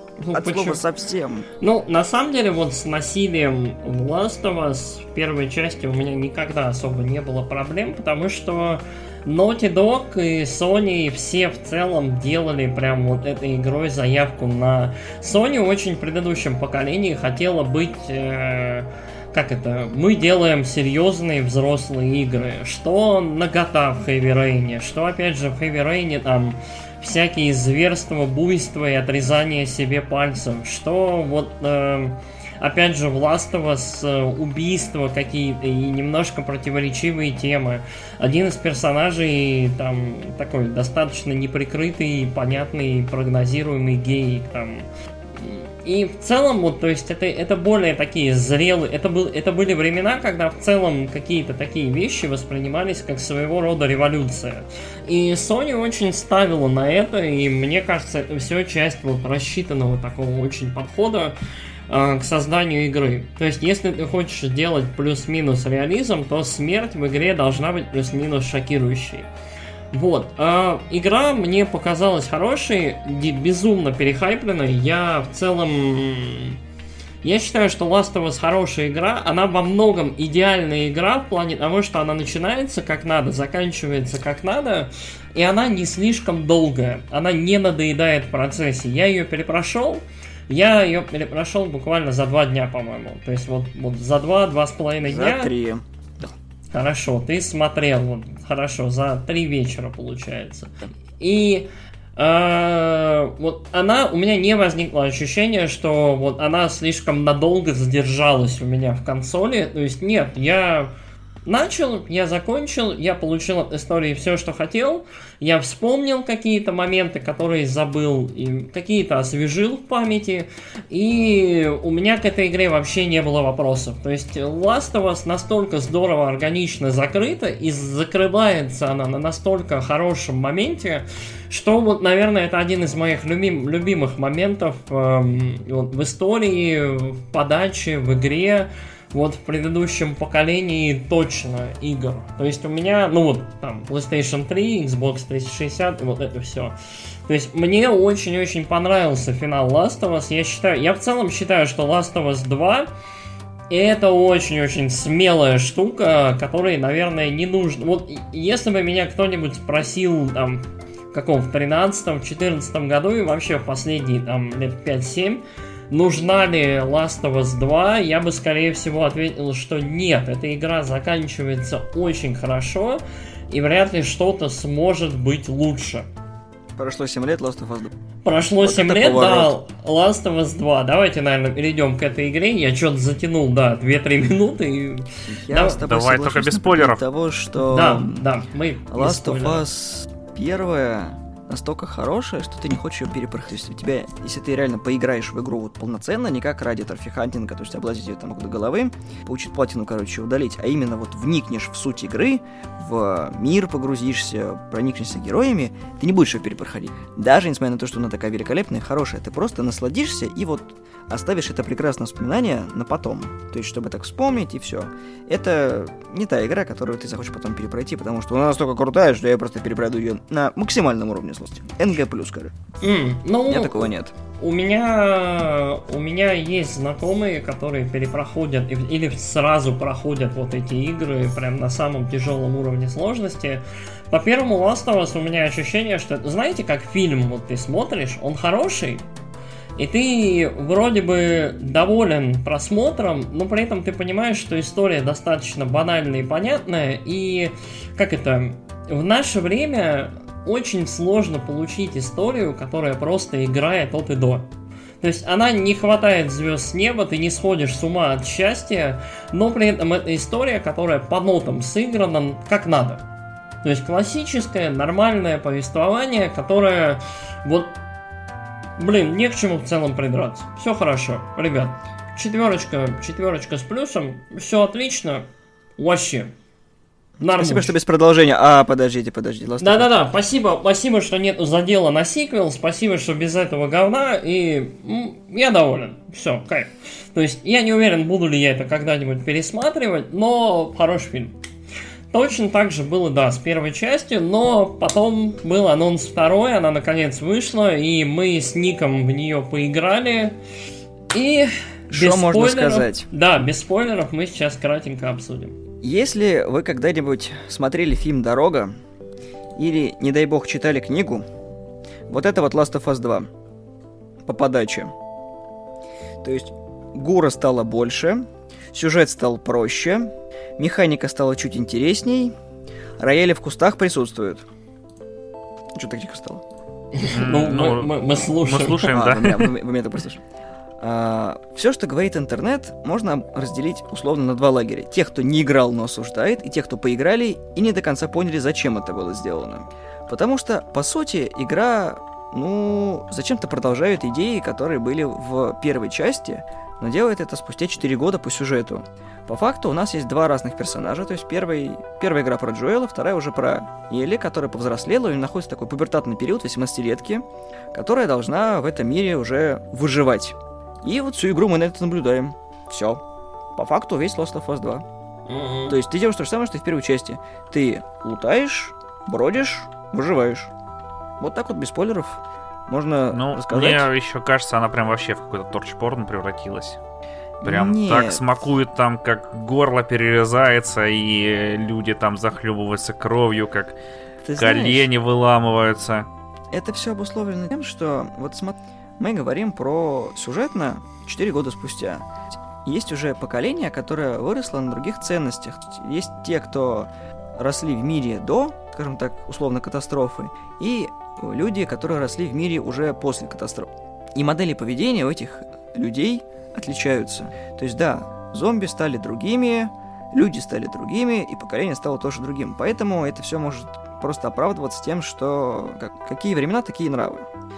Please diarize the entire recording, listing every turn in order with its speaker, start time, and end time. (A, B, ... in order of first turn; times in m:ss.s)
0:00.2-0:00.8 A
0:00.3-0:01.5 B
0:01.6-0:44.8 A
0:45.4-1:01.3 A
1:01.9-1:09.3 A
1:09.9-1:16.6 A
1:17.2-1:35.5 A
1:35.0-1:36.3 B
1:36.7-1:50.9 A
1:51.4-2:26.7 A
2:27.3-2:32.9 A
2:33.7-2:56.1 A
2:56.8-2:57.9 B
2:58.2-3:05.8 A
2:58.6-2:59.5 B
3:05.3-3:08.2 B
3:05.8-3:07.0 C
3:07.6-3:09.6 A
3:08.9-3:42.5 B
3:42.8-3:59.0 A
3:43.5-3:44.1 B
3:59.8-4:14.5 A
4:15.0-4:23.0 A
4:23.6-4:27.7 A
4:28.8-4:35.2 A
4:35.8-4:36.3 A
4:37.2-4:37.7 A
4:37.2-4:40.1 B
4:39.6-4:51.4 A
4:52.1-5:00.4 A
5:01.1-5:05.6 A
5:01.9-5:03.1 B
5:05.8-5:08.7 B
5:09.6-5:11.2 B
5:12.1-5:13.3 B
5:14.2-5:14.9 B
5:16.2-5:22.3 B
5:23.0-5:24.4 B
5:25.7-5:26.4 B
5:26.9-5:29.0 A
5:27.1-5:29.5 C
5:28.9-5:30.2 B
5:30.8-6:03.0 B
6:03.6-6:04.8 B
6:05.3-6:05.8 A
6:05.7-6:10.5 B
6:11.2-6:13.9 B
6:13.1-6:16.8 C
6:17.4-6:18.2 B
6:17.4-6:23.8 C
6:24.2-6:24.9 B
6:24.4-6:26.1 C
6:26.5-6:32.1 B
6:32.6-6:57.3 B